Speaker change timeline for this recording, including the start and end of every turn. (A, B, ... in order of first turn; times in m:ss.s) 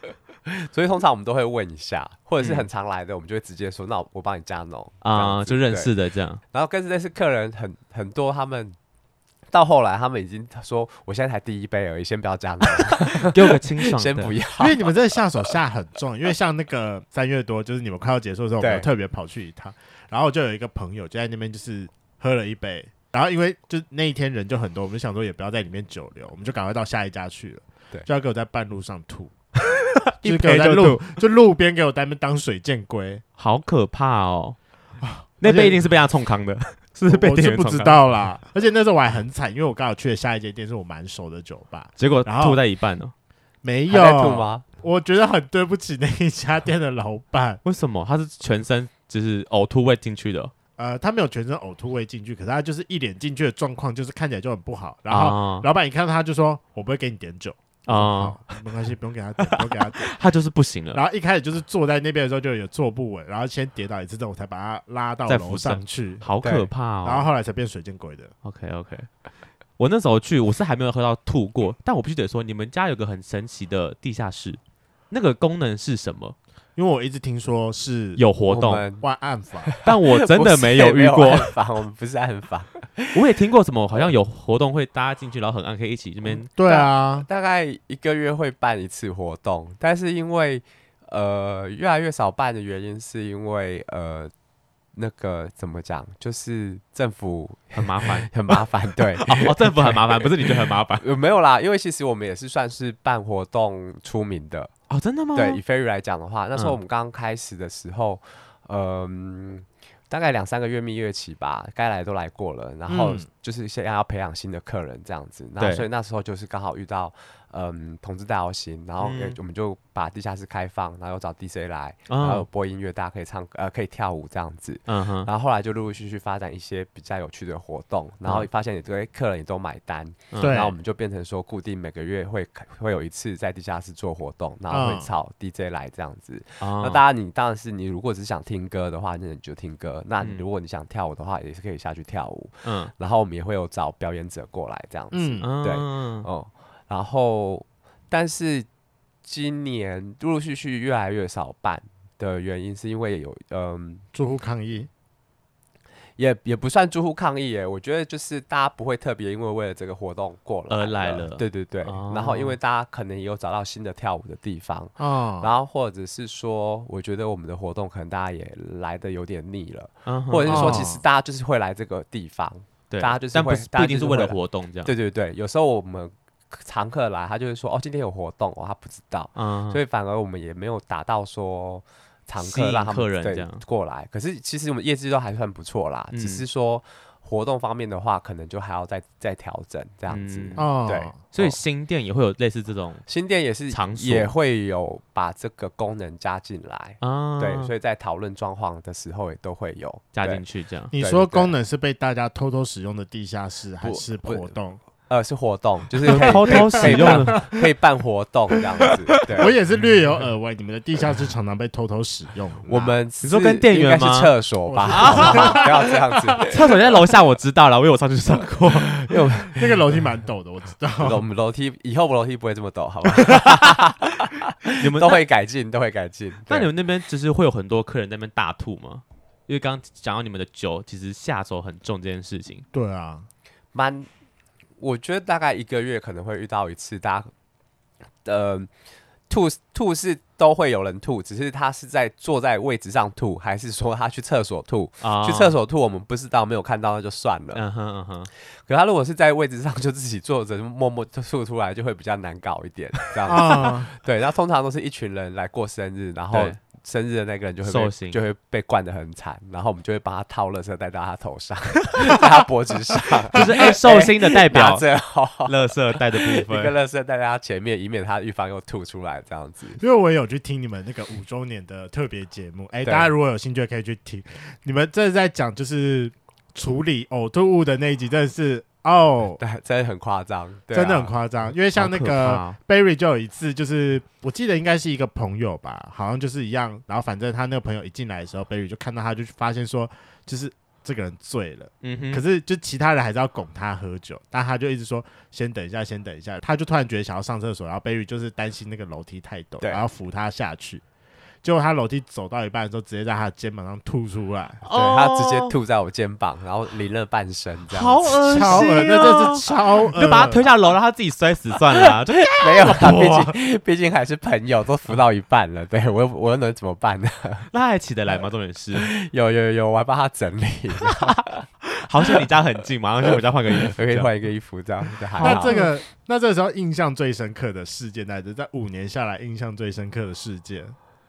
0:00.4-0:05.9 A
0:02.4-0:02.7 B
0:05.0-0:06.4 B
0:06.5-0:08.8 A
0:09.5-0:14.9 A
0:12.9-0:14.4 B
0:14.6-0:29.3 C
0:18.6-0:18.9 A
0:29.9-0:31.2 B
0:30.2-0:33.2 C
0:33.4-0:34.6 B
0:35.0-0:35.8 C
0:35.4-0:38.0 B
0:37.1-0:42.6 C
0:42.0-0:43.1 B
0:43.6-0:47.6 C
0:43.9-0:44.6 A
0:47.6-0:50.5 B
0:50.8-1:00.1 C
0:55.1-0:55.7 B
0:57.9-0:58.6 B
0:59.4-1:01.0 B
1:00.9-1:06.2 C
1:05.3-1:07.3 B
1:06.4-1:06.7 A
1:07.0-1:08.3 C
1:08.4-1:09.1 B
1:09.8-1:14.6 B
1:15.1-1:16.4 B
1:16.8-1:18.2 C
1:18.2-1:18.8 B
1:18.5-1:19.0 A
1:19.0-1:19.7 C
1:19.6-1:23.2 A
1:19.8-1:21.5 B
1:23.1-1:26.5 B
1:26.3-1:27.3 C
1:26.6-1:34.3 A
1:34.9-1:44.7 A
1:37.7-1:41.0 B
1:44.9-1:45.6 B
1:45.3-2:28.7 A
1:52.9-1:53.3 C
1:55.6-1:55.8 B
1:59.0-1:59.4 B
2:02.1-2:02.4 B
2:04.9-2:05.3 B
2:10.3-2:10.6 B
2:10.4-2:10.7 C
2:14.7-2:15.1 C
2:16.6-2:17.0 B
2:22.6-2:22.9 B
2:25.1-2:25.5 C
2:25.4-2:26.3 B
2:29.2-2:34.0 A
2:34.1-2:34.9 C
2:36.2-3:11.6 A
2:40.7-2:42.6 B
2:45.0-2:45.5 C
2:50.0-2:50.9 B
2:50.5-2:51.0 C
2:52.9-2:54.9 B
2:59.4-2:59.8 B
3:02.4-3:03.6 B
3:06.1-3:06.4 B
3:10.1-3:10.7 B
3:10.6-3:11.2 C
3:11.3-3:13.0 B
3:13.0-3:20.4 A
3:13.7-3:14.3 B
3:17.0-3:17.7 B
3:20.1-3:20.9 B
3:20.9-3:24.8 C
3:20.9-3:21.5 A
3:23.8-3:24.5 A
3:25.1-3:29.5 A
3:26.0-3:27.5 C
3:26.0-3:27.6 B
3:29.3-3:32.9 C
3:32.7-3:36.6 A
3:33.2-3:34.3 B
3:34.7-3:36.6 C
3:34.9-3:35.7 B
3:36.4-3:39.0 B
3:39.0-3:40.0 A
3:39.5-3:41.2 C
3:41.0-3:46.7 A
3:44.8-3:45.2 B
3:46.5-3:52.6 B
3:52.7-3:53.2 C
3:53.7-3:54.1 A
3:54.8-3:57.3 A
3:58.2-3:58.7 A
3:59.3-4:07.6 A
4:05.0-4:05.5 B
4:07.5-4:08.3 B
4:08.6-4:29.8 A
4:13.3-4:13.9 C
4:16.3-4:16.6 B
4:17.6-4:18.2 B
4:23.3-4:24.9 B
4:23.4-4:23.7 C
4:25.4-4:26.7 B
4:29.8-4:39.4 C
4:32.8-4:33.1 A
4:39.4-4:41.1 A
4:40.7-5:00.8 C
4:41.7-4:42.6 B
4:51.8-4:52.2 B
5:01.4-5:04.6 C
5:04.6-5:05.5 B
5:04.6-5:08.8 A
5:07.7-5:13.3 B
5:08.2-5:10.5 C
5:11.8-5:17.5 A
5:17.5-5:18.9 B
5:18.7-5:21.4 A
5:21.6-5:24.1 B
5:23.7-5:25.6 A
5:25.2-5:25.7 B
5:25.2-5:30.7 C